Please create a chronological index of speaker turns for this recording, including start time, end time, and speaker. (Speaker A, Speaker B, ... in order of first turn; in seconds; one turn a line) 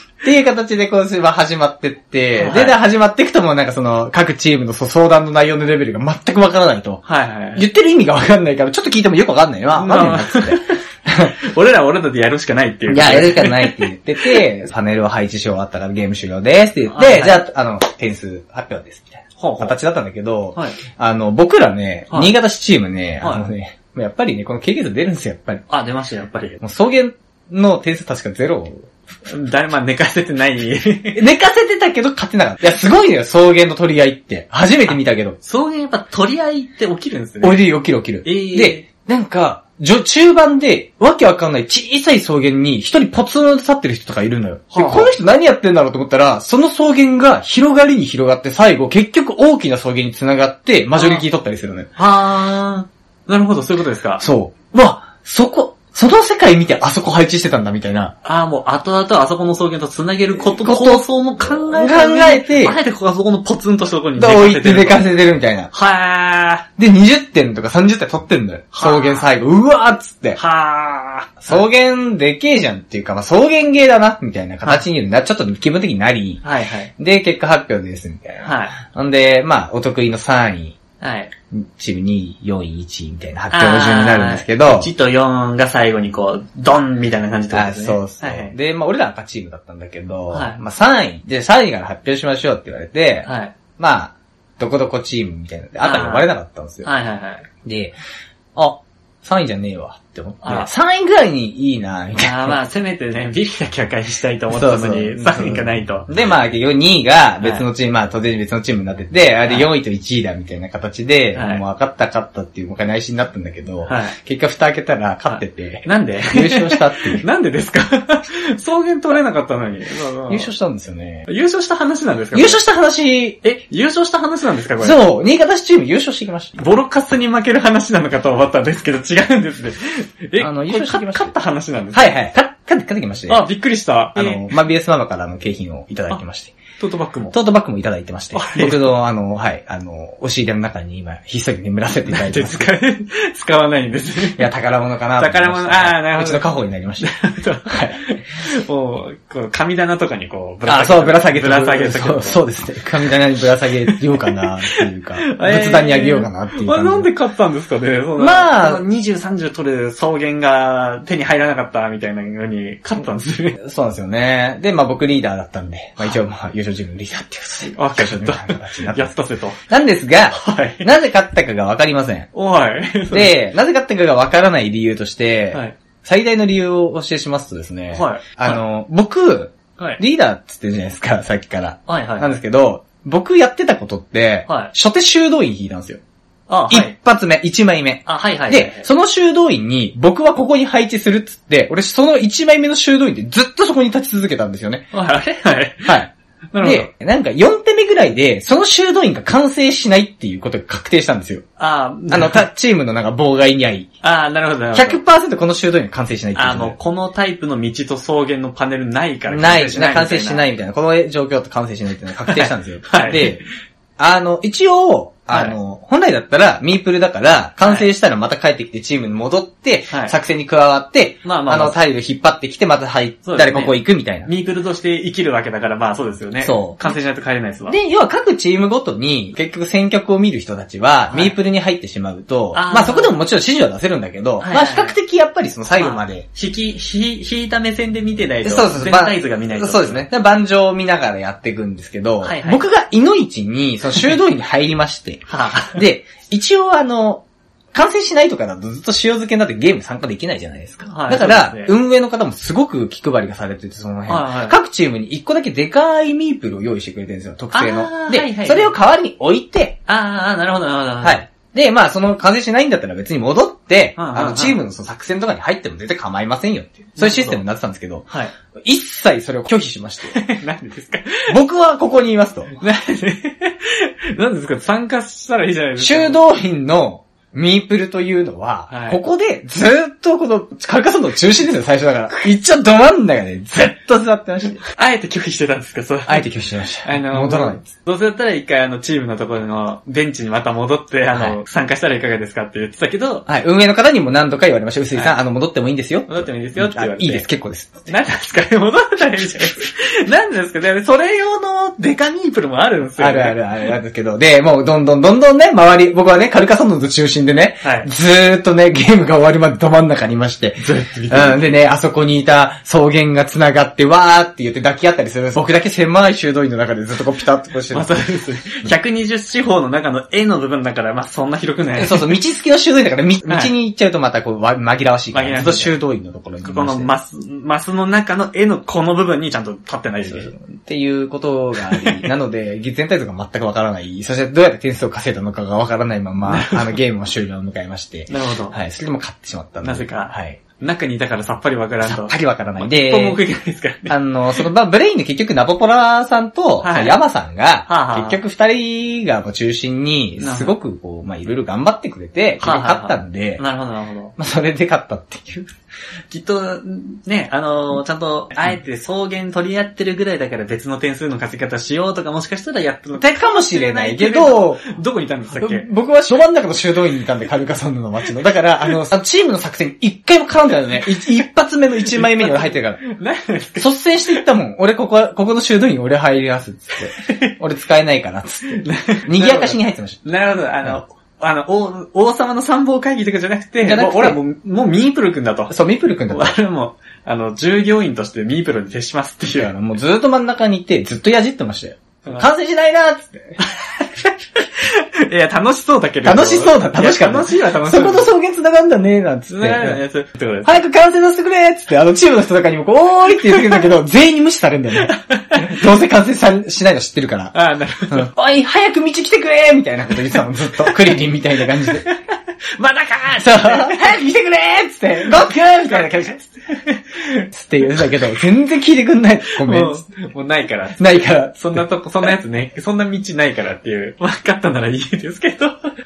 Speaker A: 0.2-7.0
Speaker B: 2.4-2.8
Speaker B: 7.0-7.7
Speaker A: 7.6-11.3
Speaker B: 9.8-14.4
Speaker A: 12.9-25.6
Speaker B: 16.9-17.4
Speaker B: 19.4-19.8
Speaker B: 23.2-23.5
Speaker B: 25.7-26.6
Speaker A: 26.6-28.9
Speaker B: 29.3-31.2
Speaker A: 31.1-35.4
Speaker B: 35.4-37.6
Speaker A: 37.4-51.9
Speaker B: 38.2-38.9
Speaker B: 44.7-45.1
Speaker B: 51.0-51.2
Speaker B: 52.0-54.2
Speaker A: 54.2-58.1
Speaker B: 58.2-65.1
Speaker A: 60.6-62.8
Speaker A: 64.2-65.7
Speaker B: 65.7-66.7
Speaker A: 66.8-70.4
Speaker B: 68.7-69.3
Speaker B: 70.4-71.6
Speaker A: 71.4-76.4
Speaker B: 76.4-76.9
Speaker A: 77.0-80.8
Speaker B: 78.4-78.8
Speaker B: 81.0-81.3
Speaker A: 81.5-84.9
Speaker B: 83.5-88.5
Speaker A: 87.5-96.9
Speaker B: 90.3-90.6
Speaker B: 93.2-93.5
Speaker B: 95.8-96.3
Speaker B: 96.8-97.5
Speaker A: 97.6-98.0
Speaker A: 98.6-102.6
Speaker B: 100.4-100.7
Speaker B: 102.2-106.1
Speaker A: 104.5-117.2
Speaker B: 109.4-109.7
Speaker B: 111.3-111.6
Speaker B: 113.8-114.2
Speaker B: 115.3-120.5
Speaker A: 120.3-121.3
Speaker B: 121.3-122.6
Speaker A: 122.3-123.4
Speaker B: 123.4-125.0
Speaker A: 124.8-126.6
Speaker B: 126.6-132.2
Speaker A: 130.4-131.3
Speaker A: 131.9-133.4
Speaker B: 133.3-134.6
Speaker A: 134.2-136.6
Speaker B: 136.8-137.4
Speaker A: 137.3-142.7
Speaker B: 138.3-139.0
Speaker B: 142.1-144.5
Speaker A: 144.4-147.1
Speaker B: 145.2-152.4
Speaker A: 147.7-148.0
Speaker A: 150.7-157.1
Speaker B: 153.9-163.6
Speaker A: 158.2-158.8
Speaker A: 163.6-169.1
Speaker B: 167.7-169.6
Speaker A: 169.7-172.3
Speaker B: 170.3-170.9
Speaker B: 172.3-173.4
Speaker A: 173.1-186.0
Speaker B: 177.9-178.6
Speaker B: 181.9-182.3
Speaker B: 184.5-184.7
Speaker B: 186.5-186.9
Speaker A: 186.7-194.9
Speaker B: 188.1-188.9
Speaker B: 194.9-196.0
Speaker A: 195.8-196.1
Speaker B: 196.5-196.9
Speaker A: 196.6-201.4
Speaker B: 201.6-202.4
Speaker A: 202.1-203.9
Speaker B: 204.0-205.0
Speaker A: 204.7-206.8
Speaker B: 206.3-210.5
Speaker A: 209.3-213.4
Speaker B: 212.2-213.4
Speaker A: 214.0-224.3
Speaker B: 215.3-215.6
Speaker B: 217.6-217.9
Speaker B: 219.9-220.2
Speaker B: 221.2-221.8
Speaker B: 223.2-227.8
Speaker A: 226.4-227.0
Speaker A: 227.7-236.3
Speaker B: 231.1-231.4
Speaker B: 232.5-233.2
Speaker B: 234.4-234.9
Speaker B: 235.8-240.1
Speaker A: 238.4-259.8
Speaker B: 242.2-242.6
Speaker B: 245.3-245.8
Speaker B: 250.9-251.7
Speaker B: 254.1-254.6
Speaker B: 257.5-258.8
Speaker B: 259.9-261.2
Speaker A: 261.0-270.2
Speaker B: 264.0-264.6
Speaker B: 267.0-267.4
Speaker B: 270.1-271.4
Speaker A: 271.3-272.6
Speaker B: 272.6-276.2
Speaker A: 275.8-284.6
Speaker B: 278.7-279.0
Speaker B: 284.7-286.3
Speaker A: 286.1-287.6
Speaker B: 286.8-293.3
Speaker A: 293.3-297.9
Speaker B: 296.1-297.3
Speaker B: 297.9-303.7
Speaker A: 303.0-318.0
Speaker B: 307.6-307.9
Speaker B: 310.6-311.6
Speaker B: 317.7-322.1
Speaker A: 321.8-326.9
Speaker B: 323.3-323.5
Speaker B: 325.1-325.8
Speaker B: 326.4-330.3
Speaker A: 330.1-340.4
Speaker B: 331.7-332.1
Speaker B: 336.2-336.8
Speaker B: 338.1-338.6
Speaker B: 339.6-344.5
Speaker A: 341.8-343.2
Speaker A: 343.9-353.4
Speaker B: 346.6-347.0
Speaker B: 347.7-348.2
Speaker B: 350.2-350.6
Speaker B: 352.4-354.1
Speaker A: 354.2-355.5
Speaker B: 356.1-365.7
Speaker A: 363.0-364.6
Speaker A: 365.4-372.8
Speaker B: 371.9-374.2
Speaker A: 373.6-380.0
Speaker B: 377.0-377.3
Speaker B: 378.6-385.6
Speaker A: 383.6-384.2
Speaker A: 385.5-386.3
Speaker B: 386.1-389.5
Speaker A: 389.4-393.4
Speaker B: 393.4-398.1
Speaker A: 396.0-399.8
Speaker B: 399.3-400.6
Speaker A: 400.4-407.4
Speaker B: 404.8-405.6
Speaker B: 407.3-408.1
Speaker A: 407.9-411.9
Speaker B: 411.6-414.0
Speaker A: 413.2-416.3
Speaker B: 415.6-415.9
Speaker B: 416.5-417.9
Speaker A: 417.3-419.9
Speaker B: 419.4-425.7
Speaker A: 420.8-422.1